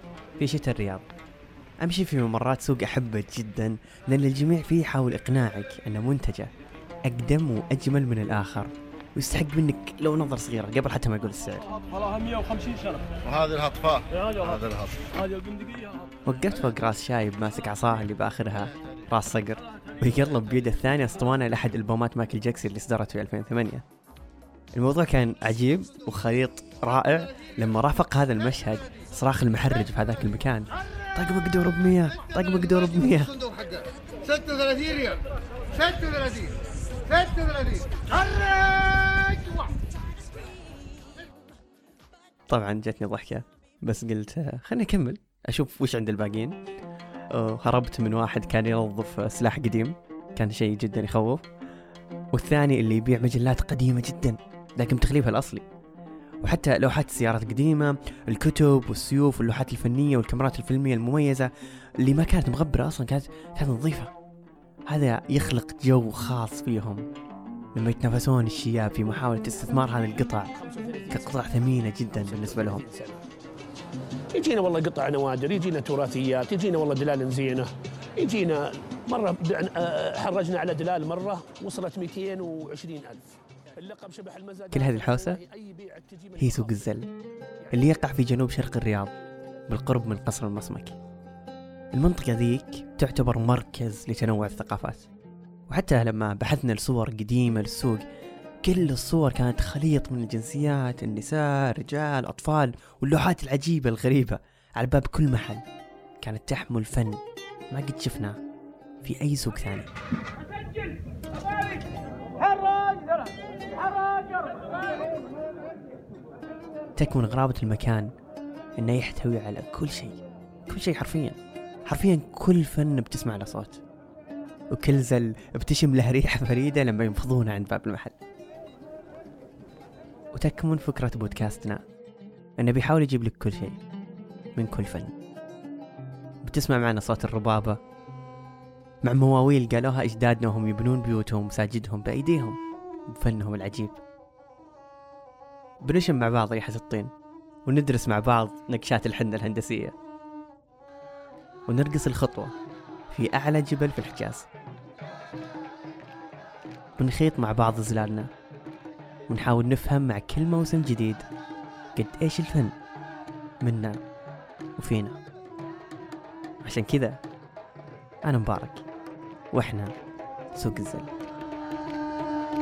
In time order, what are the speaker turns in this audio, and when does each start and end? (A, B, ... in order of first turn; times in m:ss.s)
0:00.4-0:01.0 A
0:01.8-0:06.5 A
0:07.1-0:11.7 A
0:11.8-0:13.2 B
0:13.3-0:14.9 C
0:14.1-0:16.1 B
0:16.3-0:23.8 A
0:24.8-0:33.6 A
0:33.6-0:35.2 C
0:35.8-0:36.5 C
0:37.1-0:39.6 C
0:42.5-0:46.6 A
0:47.3-0:51.4 A
0:52.3-0:55.6 A
0:56.4-1:04.1 A
1:04.9-1:07.0 A
1:07.8-1:10.5 A
1:10.5-1:13.2 D
1:11.1-1:12.8 A
1:14.3-1:27.0 D
1:24.7-1:25.4 A
1:26.4-1:27.1 A
1:27.7-1:28.1 D
1:27.7-1:29.1 A
1:29.7-1:31.0 A
1:31.9-1:35.1 A
1:35.7-1:38.0 A
1:38.6-1:45.6 A
1:46.2-1:48.4 A
1:49.0-1:49.9 A
1:57.0-1:58.1 A
1:58.8-2:03.8 A
2:04.7-2:08.2 A
2:10.3-2:11.8 A
2:12.6-2:13.8 A
2:14.6-2:15.1 A
2:16.4-2:17.8 A
2:19.0-2:22.6 A
2:23.1-2:24.0 A
2:25.8-2:27.1 A
2:27.7-2:30.0 A
2:31.7-2:32.5 A
2:33.1-2:34.5 A
2:37.0-2:38.3 A
2:39.3-2:41.2 A
2:42.0-2:42.7 A
2:43.6-2:44.0 A
2:44.8-2:45.2 A
2:46.6-2:47.2 A
2:48.2-2:48.8 A
2:49.5-2:49.9 A
2:50.5-2:51.1 A